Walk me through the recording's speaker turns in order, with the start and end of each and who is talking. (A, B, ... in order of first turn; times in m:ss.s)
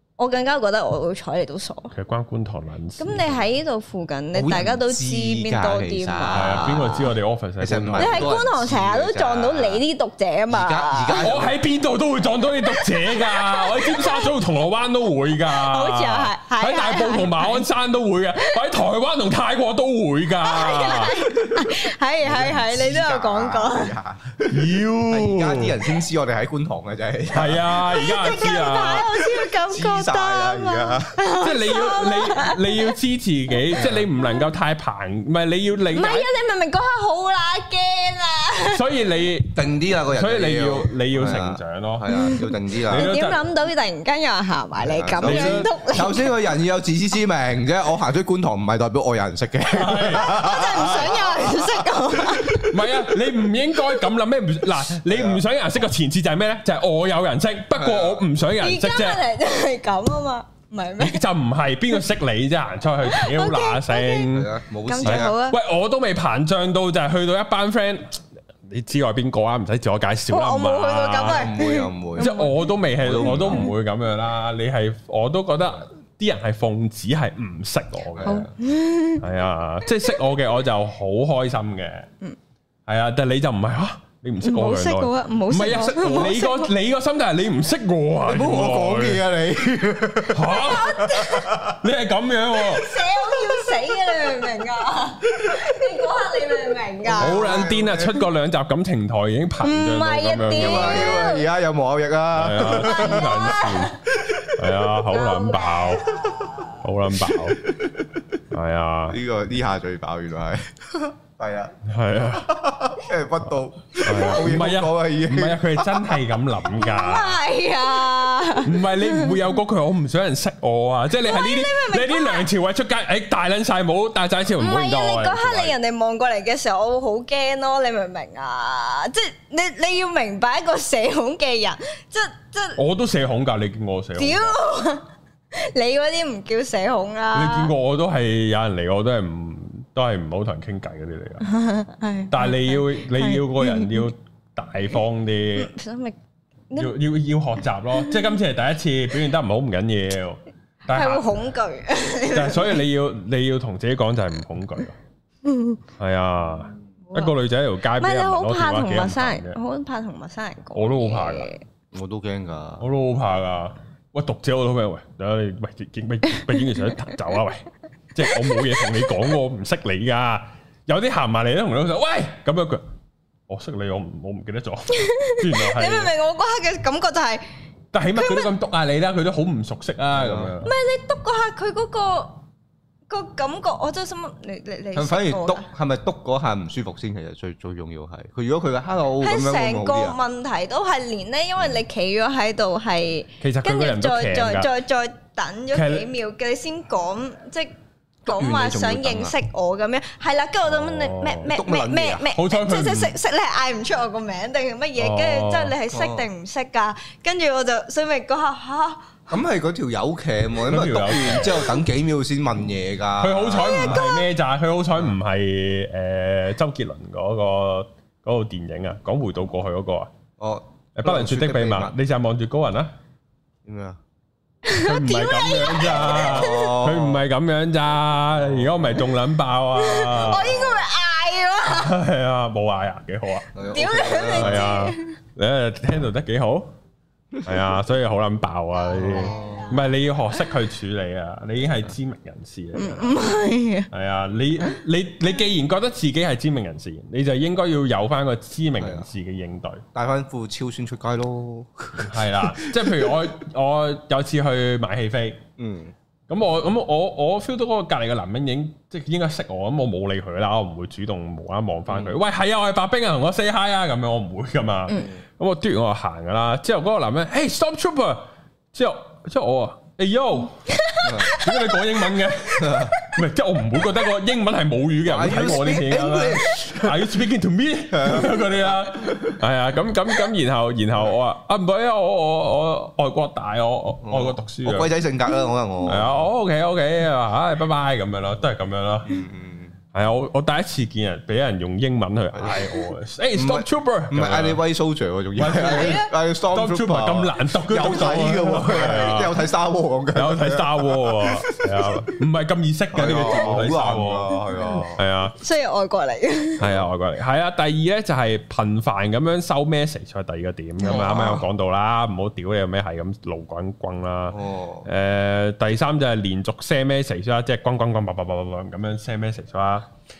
0:00.2-0:01.9 A
0:01.9-0:03.2 B
0:03.0-0:06.8 A
0:04.3-0:09.8 C
0:06.3-0:08.3 B
0:08.0-0:11.3 A
0:10.5-0:11.6 C
0:11.1-0:21.2 B
0:12.6-0:14.3 A
0:15.4-0:17.6 A
0:20.4-0:24.0 A
0:22.2-0:27.7 C
0:24.5-0:25.8 B
0:27.3-0:29.1 B
0:27.9-0:32.8 A
0:29.2-0:31.2 C
0:31.4-0:36.3 B
0:33.7-0:34.1 C
0:35.9-0:38.8 A
0:38.7-0:39.6 B
0:39.5-0:43.1 C
0:40.1-0:42.3 B
0:42.1-0:46.3 A
0:42.8-0:43.4 B
0:44.8-0:52.7 C
0:45.2-0:45.7 B
0:49.7-0:51.1 B
0:50.1-0:52.7 A
0:52.6-0:59.2 B
0:55.1-0:55.4 C
0:57.7-0:58.3 C
0:58.6-1:01.2 A
1:01.0-1:04.5 B
1:03.0-1:05.6 A
1:04.3-1:05.3 C
1:05.0-1:11.5 B
1:10.3-1:12.6 A
1:11.2-1:12.3 C
1:12.2-1:18.4 B
1:13.0-1:13.7 C
1:18.1-1:18.5 C
1:18.2-1:19.2 A
1:19.2-1:22.1 B
1:19.8-1:20.2 A
1:22.9-1:29.2 B
1:24.4-1:26.7 A
1:28.2-1:31.8 C
1:30.3-1:32.9 B
1:30.5-1:31.5 A
1:32.7-1:37.6 A
1:33.1-1:33.7 C
1:35.3-1:35.7 C
1:37.0-1:38.2 C
1:37.2-1:41.3 B
1:39.6-1:41.5 A
1:40.5-1:44.4 C
1:42.3-1:44.0 B
1:42.8-1:44.0 A
1:44.5-1:47.6 B
1:45.1-1:46.8 A
1:47.6-1:48.2 C
1:48.5-1:49.2 B
1:49.1-1:51.7 C
1:51.8-1:52.6 B
1:52.3-1:55.6 C
1:54.0-1:57.4 B
1:56.7-1:59.3 A
1:58.6-2:05.7 B
2:01.2-2:02.5 A
2:04.6-2:12.8 A
2:12.8-2:14.6 B
2:14.2-2:17.7 A
2:17.3-2:21.4 B
2:21.4-2:24.1 A
2:22.3-2:25.7 B
2:25.6-2:26.2 A
2:26.7-2:27.0 A
2:26.8-2:31.5 B
2:28.0-2:28.3 A
2:30.9-2:32.8 A
2:32.2-2:35.0 B
2:35.4-2:35.8 A
2:36.0-2:39.6 B
2:38.0-2:41.6 A
2:40.7-2:41.5 B
2:41.9-2:42.9 C
2:42.8-2:52.8 B
2:48.3-2:49.1 A
2:53.5-2:56.1 B
2:54.9-2:57.4 A
2:57.9-3:00.7 B
2:58.1-2:58.5 A
3:00.1-3:00.6 C
3:00.6-3:02.4 A
3:03.1-3:05.7 A
3:04.9-3:10.2 C
3:09.2-3:17.7 A
3:11.6-3:11.8 C
3:13.4-3:14.7 B
3:15.7-3:16.1 B
3:18.2-3:29.2 A
3:18.2-3:19.4 C
3:20.7-3:21.5 B
3:21.5-3:22.3 C
3:22.3-3:23.1 B
3:25.0-3:25.7 B
3:25.9-3:26.3 C
3:29.3-3:34.0 C
3:30.7-3:31.7 B
3:33.2-3:40.1 B
3:33.6-3:34.2 A
3:40.4-3:41.9 C
3:40.9-3:42.9 B
3:43.6-3:44.0 C
3:44.6-3:46.7 A
3:44.8-3:50.6 B
3:45.9-3:47.2 C
3:49.7-3:52.0 A
3:50.3-3:50.8 C
3:51.7-3:53.5 B
3:53.5-3:54.9 C
3:53.7-3:55.0 A
3:54.3-3:56.7 B
3:57.4-4:03.2 B
3:58.9-3:59.7 C
3:59.0-3:59.7 A
4:02.7-4:03.9 A
4:03.9-4:09.8 B
4:08.8-4:09.1 C
4:09.9-4:13.1 C
4:12.0-4:15.4 B
4:15.6-4:15.9 C
4:16.3-4:30.5 B
4:21.9-4:22.2 C
4:24.9-4:25.2 C
4:30.7-4:31.6 A
4:31.0-4:31.4 C
4:31.2-4:44.9 B
4:32.6-4:33.0 C
4:35.0-4:37.1 C
4:37.9-4:39.4 C
4:44.0-4:46.2 C
4:45.8-4:49.1 B
4:49.0-4:49.8 C
4:49.9-4:54.6 B
4:52.3-4:52.8 C
4:53.3-5:01.7 C
4:55.4-4:59.4 B
4:55.6-4:56.1 A
5:00.1-5:05.4 B
5:02.9-5:05.0 C
5:05.4-5:06.6 A
5:06.6-5:06.9 C
5:06.6-5:19.9 B
5:10.8-5:11.4 A
5:10.8-5:11.4 C
5:14.3-5:14.9 C